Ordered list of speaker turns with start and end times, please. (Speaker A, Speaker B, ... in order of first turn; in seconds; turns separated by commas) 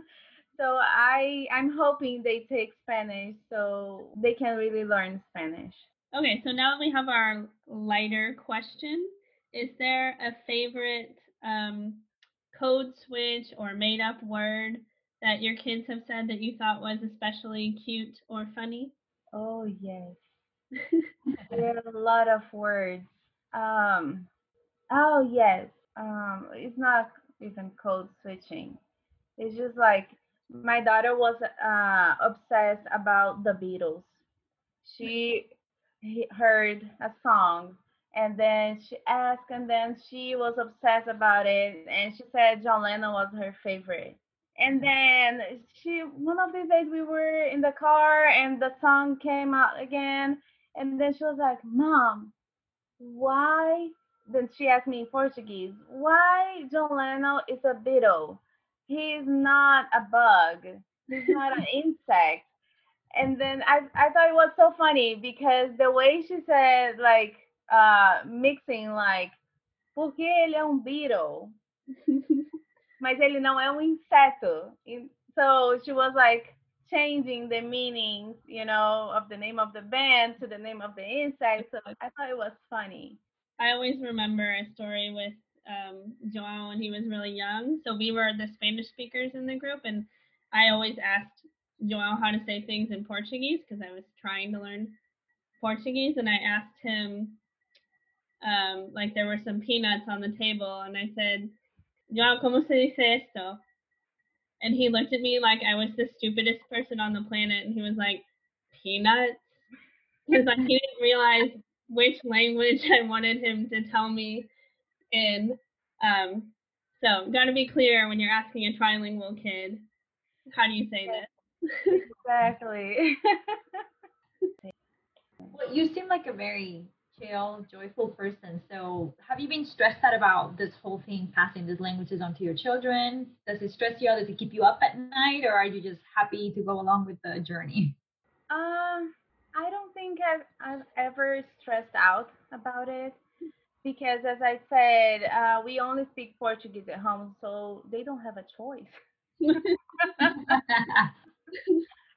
Speaker A: 0.5-5.8, Speaker B: 6.1-18.9, Speaker A: 19.3-20.2, Speaker A: 21.5-24.3, Speaker A: 24.9-28.8, Speaker A: 29.4-34.2, Speaker A: 34.8-35.5, Speaker A: 36.0-52.3, Speaker A: 53.0-62.5, Speaker A: 63.1-69.3, Speaker A: 70.0-71.5, Speaker B: 72.1-72.5, Speaker A: 73.0-83.2, Speaker B: 83.6-95.0, Speaker B: 95.6-97.4, Speaker B: 98.4-101.5, Speaker B: 102.1-103.6, Speaker B: 104.6-109.6, Speaker B: 110.3-114.5, Speaker B: 115.1-119.9, Speaker B: 120.5-122.0, Speaker A: 121.9-123.8, Speaker C: 125.5-138.0, Speaker A: 138.5-143.2, Speaker A: 143.8-149.0, Speaker B: 149.4-149.8, Speaker A: 149.6-150.6, Speaker C: 150.3-151.1